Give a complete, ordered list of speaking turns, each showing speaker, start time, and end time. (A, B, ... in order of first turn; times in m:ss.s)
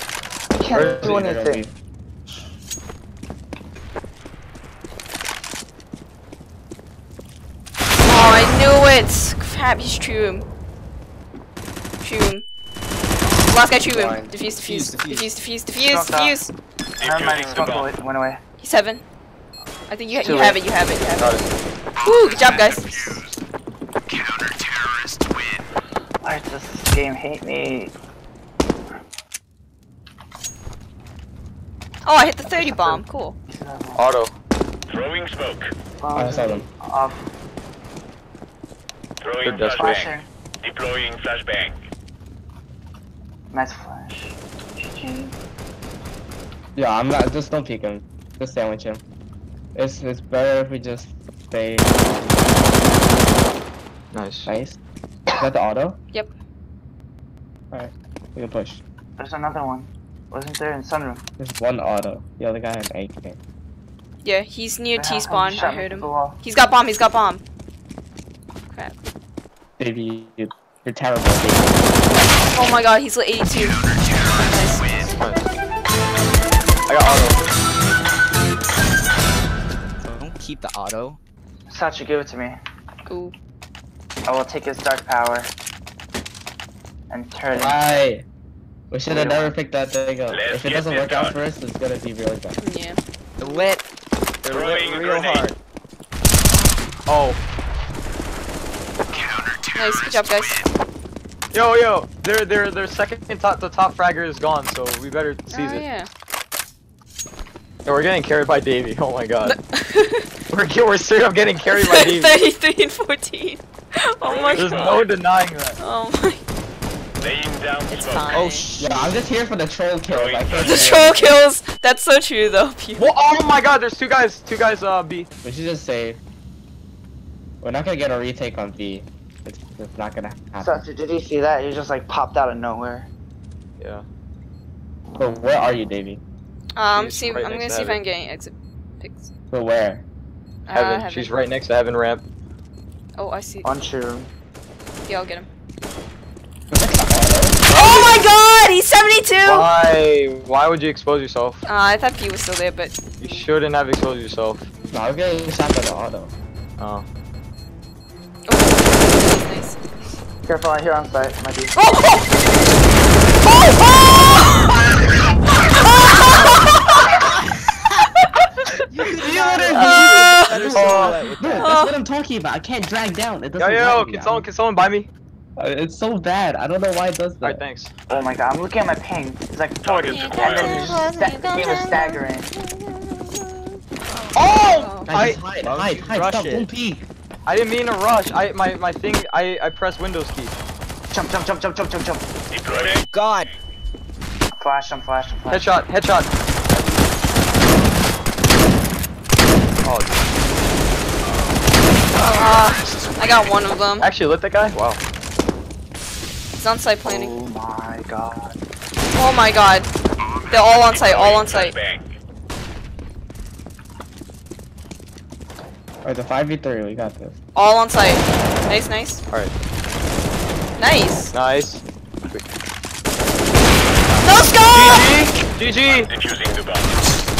0:00.5-0:01.7 A
0:00.7-0:01.7 B
0:00.7-0:01.3 C
0:08.0-0:10.4 D
0:12.0-0:12.4 D
0:13.5-0:16.5 D
0:13.9-0:14.3 B
0:14.5-0:15.3 E
0:15.7-0:16.4 A
0:17.0-0:18.0 F
0:17.0-0:18.4 A
0:18.6-0:19.0 D
0:19.9-0:21.4 D
0:20.1-0:20.6 A
0:21.1-0:21.4 C
0:22.0-0:23.2 D
0:22.3-0:23.3 E
0:26.2-0:27.9 A
0:32.0-0:33.3 D
0:32.4-0:34.0 A
0:33.9-0:34.3 C
0:34.9-0:35.7 F
0:36.0-0:37.2 A
0:36.1-0:36.7 B
0:39.2-0:41.8 F
0:39.4-0:40.1 C
0:39.7-0:40.3 A
0:43.5-0:45.3 A
0:46.8-0:49.0 B
0:49.7-0:52.7 B
0:54.1-0:54.5 C
0:54.4-0:54.8 B
0:55.4-0:56.0 B
0:57.7-0:58.8 B
0:59.2-1:01.2 A
1:01.4-1:03.4 B
1:04.2-1:07.4 D
1:05.0-1:06.4 A
1:09.8-1:11.9 B
1:12.5-1:13.8 D
1:14.4-1:15.0 D
1:15.2-1:15.4 C
1:16.9-1:17.5 C
1:20.0-1:21.2 E
1:21.7-1:22.6 A
1:23.1-1:23.3 D
1:24.2-1:25.5 A
1:27.1-1:28.0 A
1:27.5-1:28.2 B
1:28.9-1:32.6 B
1:29.1-1:29.5 C
1:30.3-1:31.4 F
1:32.6-1:33.7 D
1:33.4-1:33.8 E
1:34.4-1:35.6 E
1:34.5-1:35.5 F
1:37.1-1:37.4 C
1:39.7-1:40.6 D
1:41.5-1:45.8 C
1:45.5-1:46.1 D
1:47.8-1:49.6 C
1:49.4-1:50.3 D
1:50.5-1:52.4 C
1:51.7-1:55.0 D
1:54.2-1:55.1 F
1:54.6-1:55.8 C
1:55.8-1:56.4 D
1:57.2-1:58.4 F
1:57.9-1:58.7 D
1:58.3-1:59.2 E
1:58.8-2:01.3 B
2:00.1-2:01.2 F
2:00.6-2:03.1 D
2:03.0-2:05.3 C
2:05.4-2:06.2 B
2:07.6-2:10.8 B
2:10.6-2:13.1 A
2:13.8-2:14.0 C
2:15.2-2:16.2 B
2:16.8-2:19.3 D
2:16.9-2:18.0 C
2:19.5-2:20.0 B
2:20.6-2:21.3 D
2:20.7-2:22.2 C
2:23.2-2:23.7 D
2:23.6-2:24.3 A
2:25.1-2:25.5 D
2:26.7-2:27.6 B
2:27.7-2:29.7 D
2:29.4-2:31.6 C
2:31.6-2:32.9 D
2:33.2-2:34.7 C
2:34.9-2:36.3 B
2:36.8-2:37.0 C
2:38.5-2:39.8 D
2:40.4-2:41.7 A
2:41.8-2:42.3 D
2:43.4-2:44.7 D
2:45.8-2:47.0 D
2:47.5-2:48.0 E
2:48.9-2:51.8 E
2:49.1-2:54.4 B
2:49.7-2:50.6 D
2:50.7-2:51.2 C
2:51.6-2:52.0 D
2:53.6-2:55.1 C
2:55.6-2:57.6 B
2:57.4-2:57.9 C
2:58.1-3:02.5 A
2:59.8-3:01.0 F
3:00.0-3:05.1 D
3:04.3-3:05.4 C
3:05.1-3:07.1 B
3:05.6-3:06.7 E
3:07.5-3:10.6 C
3:11.1-3:12.2 A
3:12.5-3:13.0 F
3:12.7-3:13.5 E
3:14.5-3:15.8 A
3:15.5-3:16.3 C
3:19.8-3:20.3 C
3:22.2-3:22.4 A
3:22.3-3:24.1 D
3:24.0-3:25.0 C
3:26.6-3:27.3 D
3:27.0-3:28.6 A
3:29.1-3:29.9 D
3:30.5-3:31.7 D
3:30.7-3:32.1 F
3:36.0-3:37.4 B
3:37.5-3:39.2 D
3:40.8-3:41.3 D
3:41.3-3:42.4 C
3:44.2-3:45.1 D
3:44.7-3:46.1 C
3:45.9-3:47.0 F